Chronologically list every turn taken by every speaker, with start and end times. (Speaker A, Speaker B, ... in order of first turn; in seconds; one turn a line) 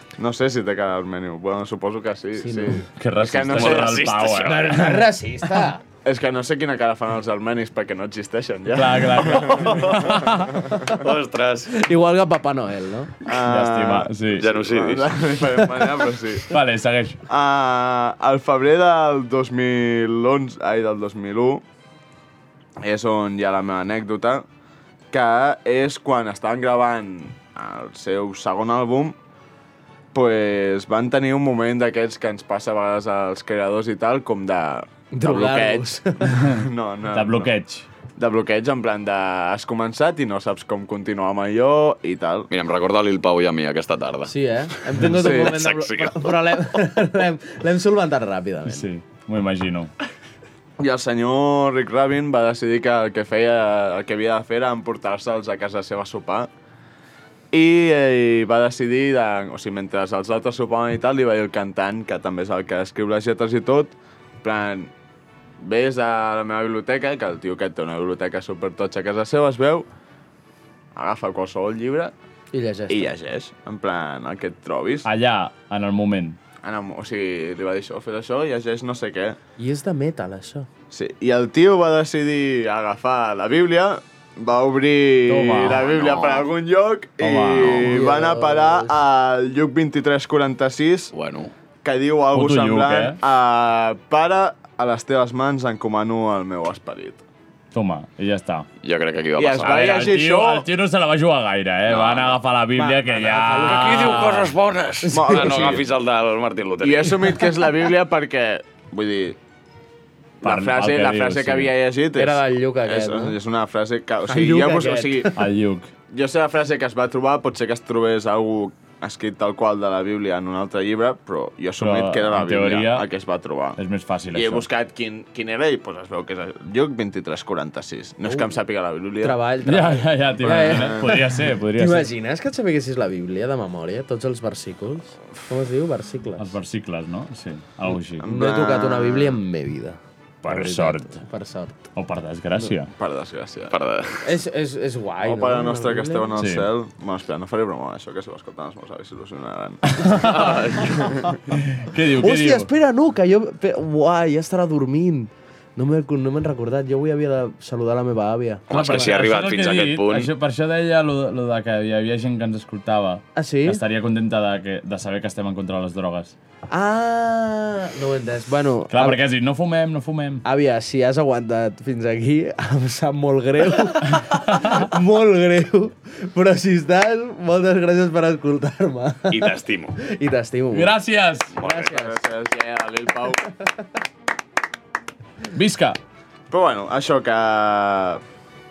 Speaker A: 0.2-4.3
Speaker B: 2.4-2.8
Speaker C: 3.0-5.1
Speaker D: 3.5-4.9
Speaker B: 4.4-5.8
Speaker A: 6.0-11.0
Speaker C: 8.7-10.2
Speaker D: 9.6-10.2
Speaker D: 10.8-11.8
Speaker B: 11.7-13.1
Speaker A: 13.2-16.6
Speaker C: 13.4-14.5
Speaker D: 14.4-15.4
Speaker C: 16.5-17.2
Speaker A: 17.3-21.6
Speaker A: 22.8-24.4
Speaker A: 25.1-29.2
Speaker A: 30.1-37.5
Speaker B: 35.1-36.3
Speaker C: 36.3-37.9
Speaker A: 38.2-42.5
Speaker D: 42.5-46.4
Speaker B: 44.3-48.9
Speaker A: 45.1-45.6
Speaker C: 48.7-49.9
Speaker A: 50.8-56.5
Speaker A: 57.5-64.9
Speaker A: 65.6-69.9
Speaker A: 71.0-72.1
Speaker B: 72.5-73.1
Speaker A: 72.9-75.1
Speaker C: 75.0-76.4
Speaker A: 76.6-79.4
Speaker B: 79.6-80.7
Speaker A: 80.9-91.1
Speaker C: 85.3-85.8
Speaker D: 85.6-86.5
Speaker C: 87.2-87.9
Speaker B: 87.8-89.0
Speaker D: 91.1-91.5
Speaker A: 91.8-97.2
Speaker C: 92.3-93.2
Speaker C: 97.7-98.7
Speaker D: 98.8-100.2
Speaker A: 99.4-100.7
Speaker C: 99.6-104.5
Speaker D: 101.9-102.4
Speaker B: 102.7-104.3
Speaker D: 103.7-107.5
Speaker B: 105.0-105.7
Speaker A: 105.1-105.9
Speaker A: 106.8-109.4
Speaker A: 110.4-115.4
Speaker C: 110.4-111.7
Speaker B: 112.2-113.4
Speaker B: 114.3-115.4
Speaker C: 115.3-115.9
Speaker A: 116.1-123.8
Speaker C: 121.8-123.1
Speaker C: 123.8-124.7
Speaker A: 124.3-129.4
Speaker B: 128.2-128.6
Speaker B: 129.2-131.2
Speaker C: 129.6-132.1
Speaker A: 130.5-131.2
Speaker B: 131.8-136.5
Speaker C: 136.4-138.3
Speaker A: 138.1-139.4
Speaker B: 138.2-141.8
Speaker C: 140.4-141.2
Speaker C: 142.0-142.9
Speaker A: 143.0-143.8
Speaker D: 143.7-144.2
Speaker B: 144.2-146.4
Speaker A: 145.2-150.3
Speaker C: 146.4-146.7
Speaker C: 149.9-150.6
Speaker D: 150.2-151.1
Speaker C: 151.5-152.7
Speaker B: 152.2-159.1
Speaker D: 158.7-160.3
Speaker C: 158.7-166.3
Speaker B: 163.4-163.8
Speaker B: 166.7-169.2
Speaker C: 168.9-170.4
Speaker B: 170.4-179.5
Speaker D: 179.3-180.0
Speaker B: 180.0-180.9
Speaker C: 180.7-181.5
Speaker B: 181.6-182.2
Speaker D: 181.6-181.9
Speaker A: 181.6-183.4
Speaker C: 185.5-186.0
Speaker A: 186.5-188.2